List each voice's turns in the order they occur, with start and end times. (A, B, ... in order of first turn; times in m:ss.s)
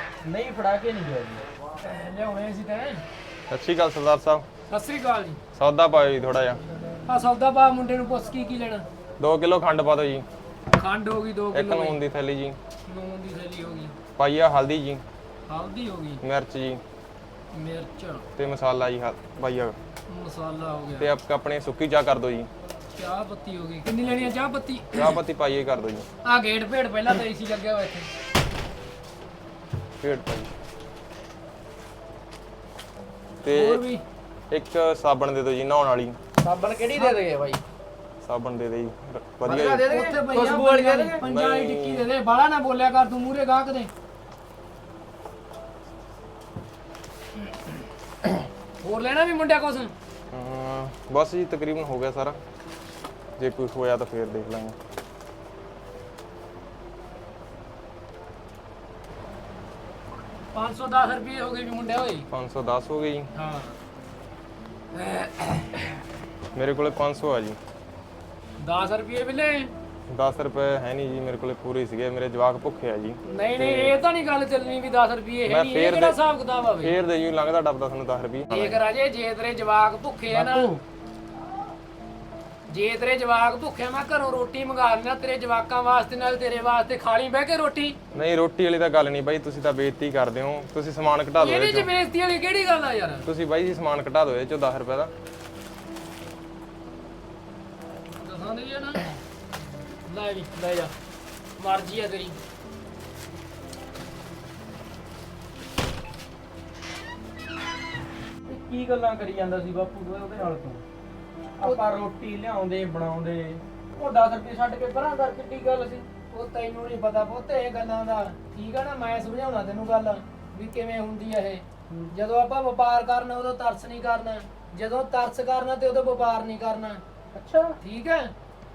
0:00.2-0:01.4 A
0:01.8-0:03.0 B
0:03.5-0:04.4 C
0:04.7-0:05.4 B
0:05.5-0:06.6 C
0:07.0-0:08.8 B
0:09.2-0:10.2 C
0:10.7-0:12.0 B
0:11.5-0:12.6 C
0:12.9-0:13.9 B
0:14.2-0:15.0 C
0:15.5-0:16.2 B
0:16.2-0:16.8 C
0:17.5-0:18.2 B
0:18.4-0:19.8 C
0:20.1-0:21.1 B
0:21.0-0:22.5 C
0:22.9-0:25.1 B
0:24.9-0:26.0 C
0:26.2-0:28.1 B
0:30.0-0:30.5 C
0:33.4-0:33.8 C
0:33.5-0:34.0 B
0:34.5-0:36.2 C
0:36.4-0:37.6 A
0:36.9-0:37.2 B
0:38.2-0:39.9 C
0:39.4-0:41.2 A
0:39.8-0:43.9 B
0:41.2-0:42.1 C
0:48.8-0:49.9 B
0:50.3-0:52.4 C
0:53.4-0:54.8 C
1:00.5-1:02.2 B
1:02.3-1:03.3 C
1:03.3-1:03.8 B
1:05.0-1:05.8 B
1:06.5-1:07.6 C
1:08.6-1:09.7 B
1:10.1-1:14.0 C
1:13.2-1:17.0 B
1:15.5-1:16.2 C
1:16.8-1:18.8 C
1:18.5-1:20.7 B
1:20.3-1:20.8 A
1:22.7-1:28.0 B
1:28.1-1:31.9 C
1:31.4-1:33.2 B
1:33.2-1:35.1 C
1:38.2-1:39.0 B
1:40.0-1:40.9 B
1:41.6-1:42.4 B
1:48.4-1:50.8 A
1:51.6-1:56.0 A
1:56.3-2:07.0 B
2:07.3-2:07.8 A
2:07.8-2:08.3 B